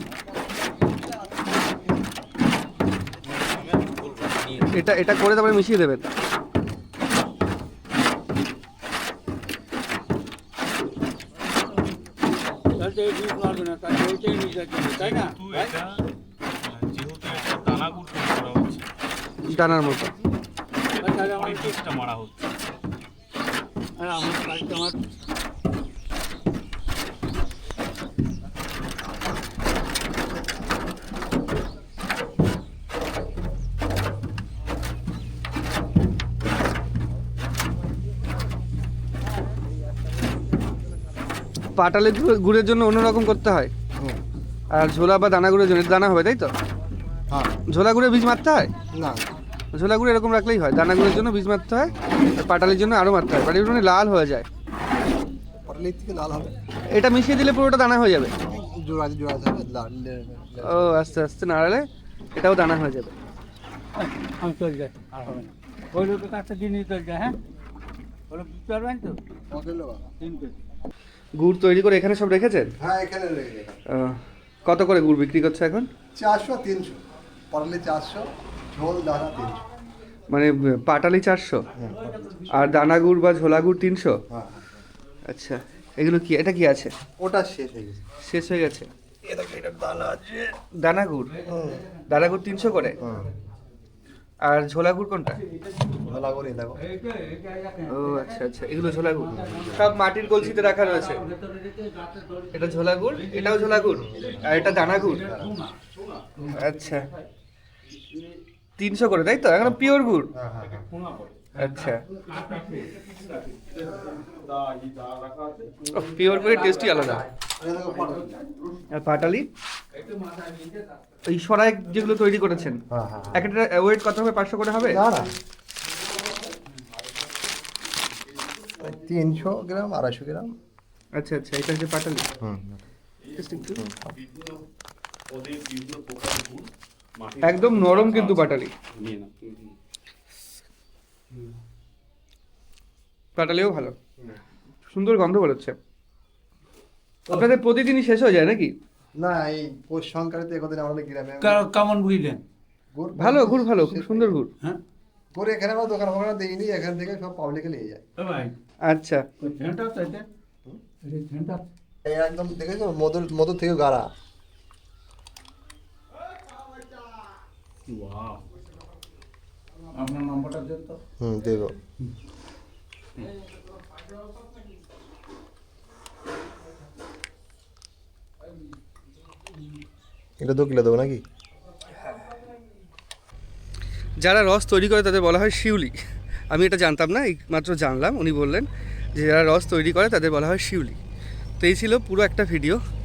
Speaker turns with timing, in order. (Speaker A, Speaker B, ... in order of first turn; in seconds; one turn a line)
Speaker A: 3.3-4.6
Speaker B: 4.7-6.0
Speaker C: 12.7-15.7
Speaker A: 14.8-18.9
Speaker B: 19.5-20.1
Speaker A: 19.5-20.0
Speaker A: 20.8-22.5
Speaker C: 21.0-21.8
Speaker C: 24.0-25.0
Speaker B: 41.7-43.7
Speaker B: 44.7-46.5
Speaker D: 47.3-47.5
Speaker B: 47.7-48.7
Speaker D: 48.9-49.3
Speaker B: 49.7-54.5
Speaker D: 55.6-56.5
Speaker B: 56.9-58.3
Speaker D: 58.4-60.9
Speaker B: 60.6-61.8
Speaker B: 62.4-63.1
Speaker C: 64.0-67.3
Speaker C: 68.3-69.2
Speaker D: 69.5-70.1
Speaker C: 70.2-70.6
Speaker B: 71.4-72.7
Speaker D: 72.8-73.8
Speaker B: 73.9-75.9
Speaker D: 76.1-79.6
Speaker B: 80.3-81.6
Speaker D: 81.8-82.3
Speaker C: 81.8-82.8
Speaker B: 82.5-84.2
Speaker D: 84.3-84.8
Speaker B: 85.3-86.9
Speaker D: 87.2-88.0
Speaker B: 88.2-88.9
Speaker D: 89.2-90.5
Speaker B: 90.8-91.3
Speaker C: 91.3-92.1
Speaker D: 91.5-91.8
Speaker B: 92.1-93.0
Speaker D: 92.8-93.3
Speaker B: 94.4-95.4
Speaker D: 96.0-96.8
Speaker C: 96.8-105.8
Speaker B: 97.9-101.2
Speaker D: 99.3-99.9
Speaker B: 102.5-105.3
Speaker D: 105.1-105.5
Speaker C: 106.3-107.2
Speaker B: 106.5-107.0
Speaker A: 107.9-108.3
Speaker B: 108.8-110.3
Speaker D: 110.3-110.8
Speaker A: 110.6-111.5
Speaker C: 111.5-113.4
Speaker B: 111.6-112.0
Speaker A: 113.6-115.9
Speaker B: 115.9-117.2
Speaker C: 116.0-117.3
Speaker D: 117.4-118.4
Speaker C: 118.0-118.5
Speaker B: 118.9-119.4
Speaker C: 119.9-121.0
Speaker B: 121.3-122.8
Speaker D: 122.9-123.5
Speaker B: 123.3-125.0
Speaker D: 124.8-125.3
Speaker D: 128.8-130.5
Speaker B: 131.2-132.3
Speaker D: 132.4-132.8
Speaker A: 133.3-133.6
Speaker B: 133.4-133.8
Speaker D: 133.7-134.1
Speaker A: 134.2-134.6
Speaker A: 135.3-139.7
Speaker B: 137.4-138.7
Speaker B: 143.3-143.9
Speaker B: 144.9-145.7
Speaker B: 147.3-148.7
Speaker D: 149.2-151.7
Speaker C: 151.4-152.4
Speaker D: 152.9-154.3
Speaker B: 153.2-154.5
Speaker D: 155.3-158.0
Speaker C: 158.2-158.5
Speaker B: 158.9-159.2
Speaker C: 159.4-160.2
Speaker C: 161.0-161.7
Speaker D: 162.0-164.1
Speaker C: 167.9-168.4
Speaker C: 169.9-171.0
Speaker D: 171.2-171.8
Speaker D: 180.4-181.2
Speaker B: 184.2-185.9
Speaker B: 186.5-191.0
Speaker B: 191.6-192.8